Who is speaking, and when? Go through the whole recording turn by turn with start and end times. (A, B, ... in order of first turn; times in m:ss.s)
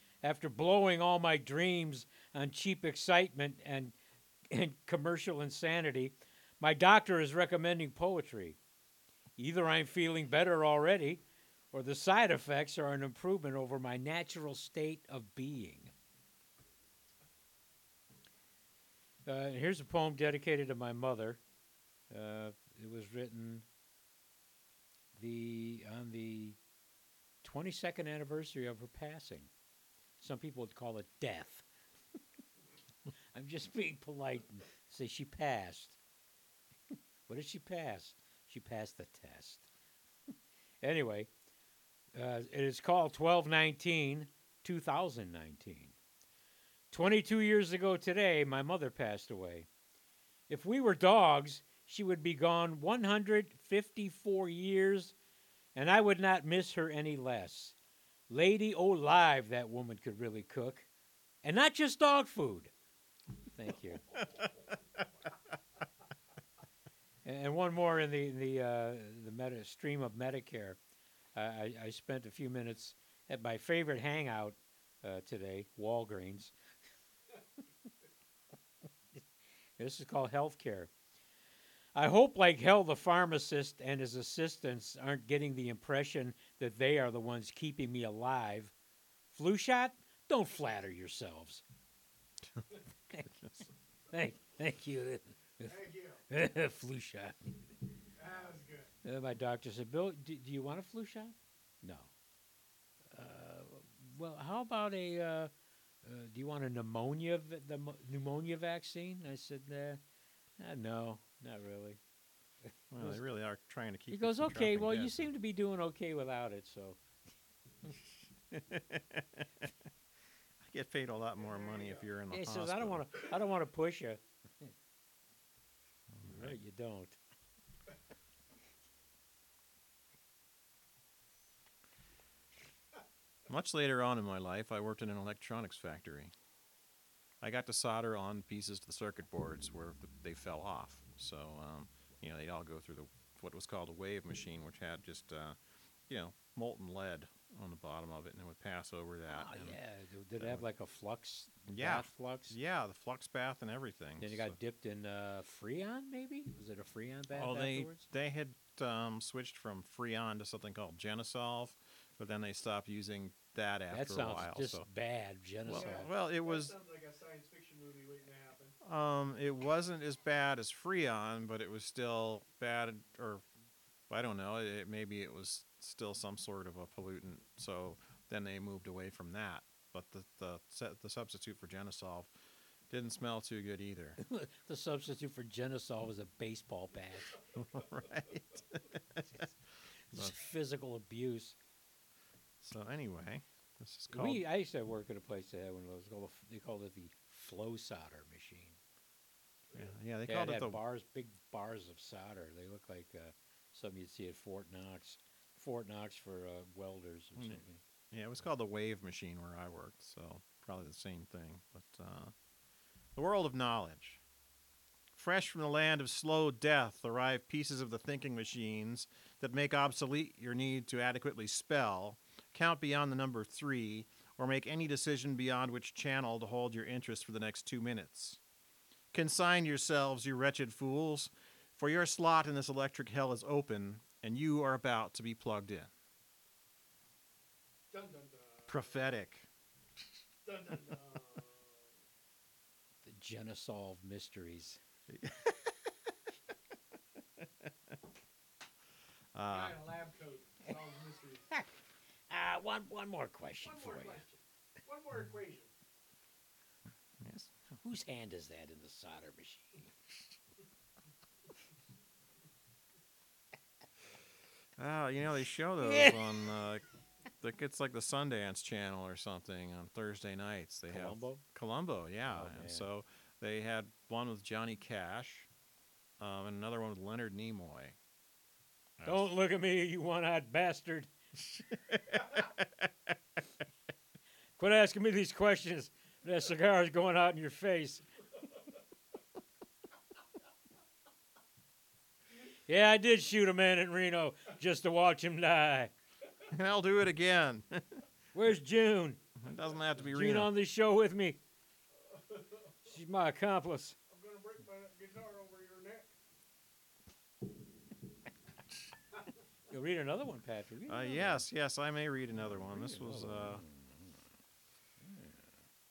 0:00.2-0:04.0 A
0:04.5-0:08.6 A
0:09.4-0:15.9 A
0:19.2-0:21.4 A
0:22.1-0:23.6 A
0:25.1-0:26.6 A
0:27.4-0:29.5 A
0:30.2-0:31.6 A
0:33.3-0:36.0 A
0:37.3-0:39.7 A
0:40.8-0:41.3 A
0:42.1-0:45.9 A
0:46.9-0:49.7 A
0:50.5-0:55.1 A
0:55.7-0:57.7 A
0:58.3-1:00.9 A
1:01.4-1:02.7 A
1:03.5-1:04.0 A
1:07.2-1:10.8 A
1:11.3-1:16.5 A
1:19.8-1:20.9 A
1:21.9-1:28.7 A
1:29.3-1:31.6 A
1:33.1-1:33.5 A
1:34.1-1:35.8 A
1:35.6-1:36.2 B
1:36.3-1:37.5 A
1:38.2-1:38.9 B
1:39.0-1:42.1 A
1:43.1-1:45.5 A
1:46.0-1:50.0 A
1:50.6-1:52.0 A
1:52.7-1:53.2 A
1:52.9-1:55.3 C
1:54.1-1:57.0 A
1:58.5-1:59.7 C
2:00.6-2:03.1 C
2:01.4-2:02.1 B
2:02.3-2:04.7 A
2:06.1-2:06.6 C
2:06.2-2:07.2 A
2:13.5-2:16.3 C
2:17.4-2:29.8 C
2:29.3-2:32.6 A
2:30.4-2:30.6 C
2:31.7-2:34.6 C
2:34.2-2:38.1 A
2:37.3-2:44.9 C
2:43.9-2:46.1 A
2:45.6-2:46.7 C
2:45.7-2:48.8 B
2:48.8-2:53.4 C
2:54.1-3:02.3 C
3:02.9-3:04.2 C
3:04.2-3:07.4 A
3:07.5-3:09.5 C
3:10.0-3:11.6 A
3:10.1-3:10.4 C
3:12.6-3:14.4 C
3:14.1-3:18.8 A
3:19.7-3:20.8 C
3:20.2-3:27.8 A
3:27.4-3:32.3 C
3:33.2-3:34.2 C
3:35.1-3:48.4 C
3:49.1-3:55.9 C
3:57.9-3:59.1 B
3:58.7-3:59.5 C
4:00.4-4:01.9 B
4:03.0-4:04.8 A
4:05.1-4:05.5 C
4:09.3-4:09.8 C
4:09.5-4:11.5 B
4:12.3-4:14.3 A
4:13.6-4:15.7 B
4:17.2-4:17.6 C
4:17.8-4:19.8 A
4:24.8-4:26.8 C
4:25.8-4:26.6 A
4:27.4-4:35.5 C
4:30.9-4:31.4 A
4:32.2-4:32.9 A
4:36.2-4:38.0 C
4:39.0-4:39.3 C
4:39.0-4:41.1 A
4:41.5-4:42.9 C
4:44.6-4:48.0 A
4:52.7-4:55.9 A
4:56.5-4:58.0 C
4:58.3-4:59.2 A
4:59.4-5:00.5 C
5:00.0-5:01.4 A
5:02.0-5:02.8 B
5:02.8-5:04.0 A
5:04.1-5:06.1 B
5:09.7-5:11.4 A
5:10.9-5:13.6 C
5:12.4-5:14.3 A
5:15.0-5:15.6 A